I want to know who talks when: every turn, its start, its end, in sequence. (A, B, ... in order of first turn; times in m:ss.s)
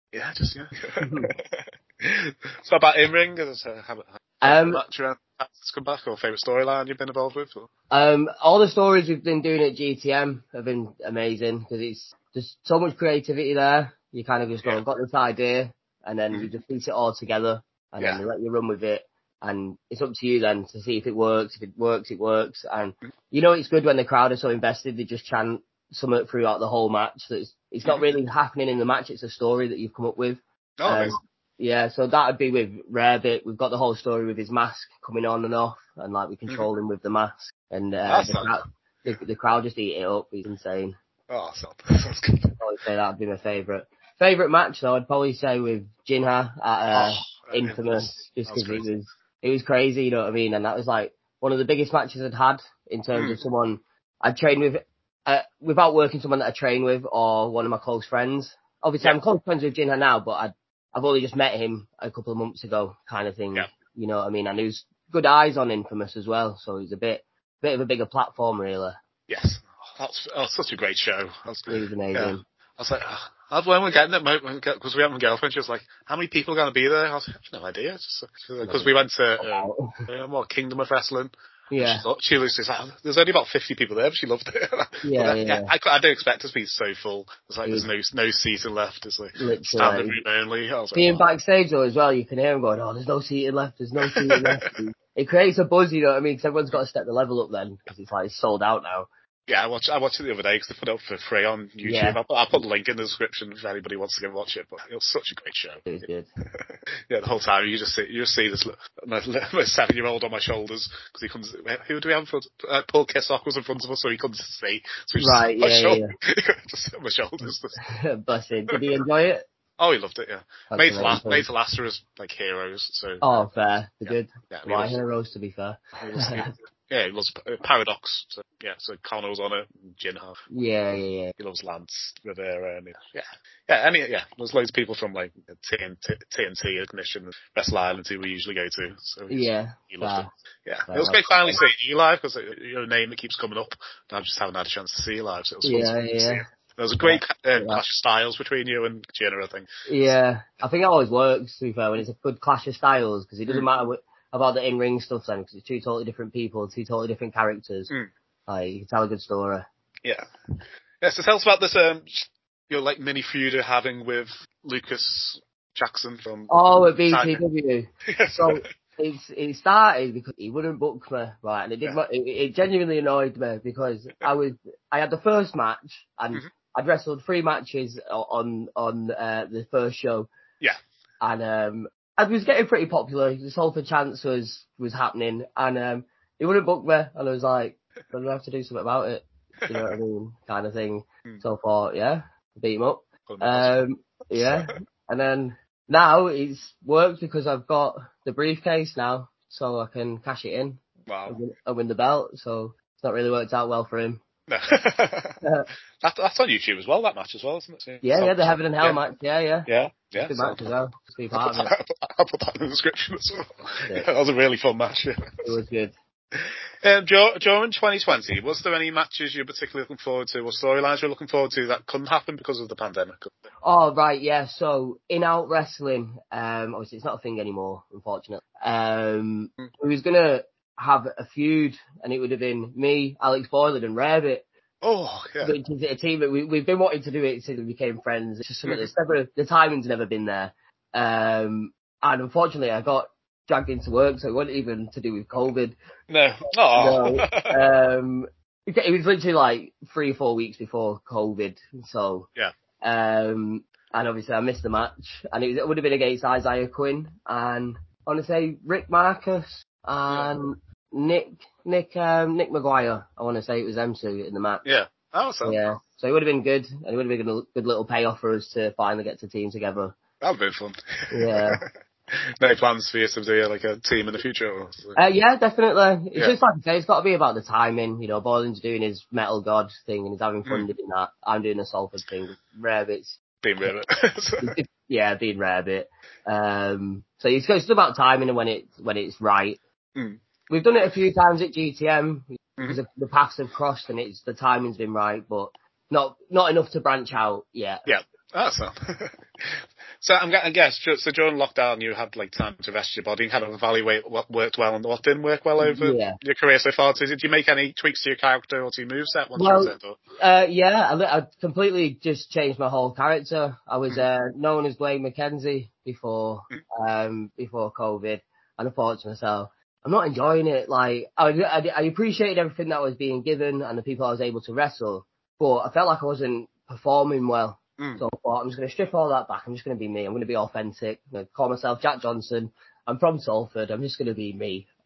0:00.1-0:07.7 A
0:01.0-0:01.3 B
0:04.4-0:04.8 B
0:07.9-0:40.9 B
0:30.8-0:31.2 A
0:38.1-0:38.5 A
0:41.3-0:42.5 A
0:42.6-1:09.0 B
0:46.9-0:48.8 A
1:09.3-1:31.2 A
1:11.7-1:12.4 B
1:18.6-1:20.0 B
1:21.7-1:22.0 B
1:25.0-1:25.7 B
1:29.4-1:30.2 B
1:30.9-1:39.1 B
1:34.1-1:34.5 A
1:39.5-1:45.9 A
1:41.8-1:42.2 B
1:45.8-1:46.3 B
1:47.1-1:57.8 A
1:55.2-1:56.1 B
1:57.8-1:59.4 B
1:59.8-2:03.5 A
2:00.7-2:01.5 B
2:03.2-2:06.5 B
2:04.0-2:05.0 A
2:06.0-2:10.4 A
2:10.5-2:11.3 B
2:11.4-2:29.7 A
2:19.3-2:20.3 B
2:20.9-2:21.6 B
2:25.6-2:26.4 B
2:27.0-2:27.8 B
2:29.9-2:37.9 B
2:38.5-2:39.6 B
2:40.0-2:40.3 A
2:41.0-2:47.4 A
2:46.5-3:00.3 B
2:48.1-2:48.7 A
3:01.2-3:24.2 B
3:13.3-3:13.8 A
3:14.3-3:14.7 A
3:21.1-3:21.4 A
3:24.5-3:25.4 A
3:25.4-3:25.7 B
3:26.0-3:29.0 A
3:28.0-3:29.7 B
3:29.7-3:30.7 A
3:30.2-3:31.7 B
3:31.3-3:35.5 A
3:33.8-3:34.1 B
3:35.4-3:35.9 B
3:36.3-3:43.3 A
3:43.6-3:54.5 B
3:54.8-3:55.5 A
3:55.4-4:05.8 B
4:06.1-4:07.6 A
4:06.7-4:12.3 B
4:12.8-4:24.6 B
4:24.6-4:25.6 A
4:25.4-4:30.0 B
4:30.2-4:35.0 A
4:31.1-4:31.6 B
4:34.9-4:43.2 B
4:43.4-4:44.5 A
4:44.4-4:49.6 B
4:50.5-4:57.8 B
4:57.8-5:10.0 A
5:05.6-5:06.2 B
5:09.4-5:34.7 B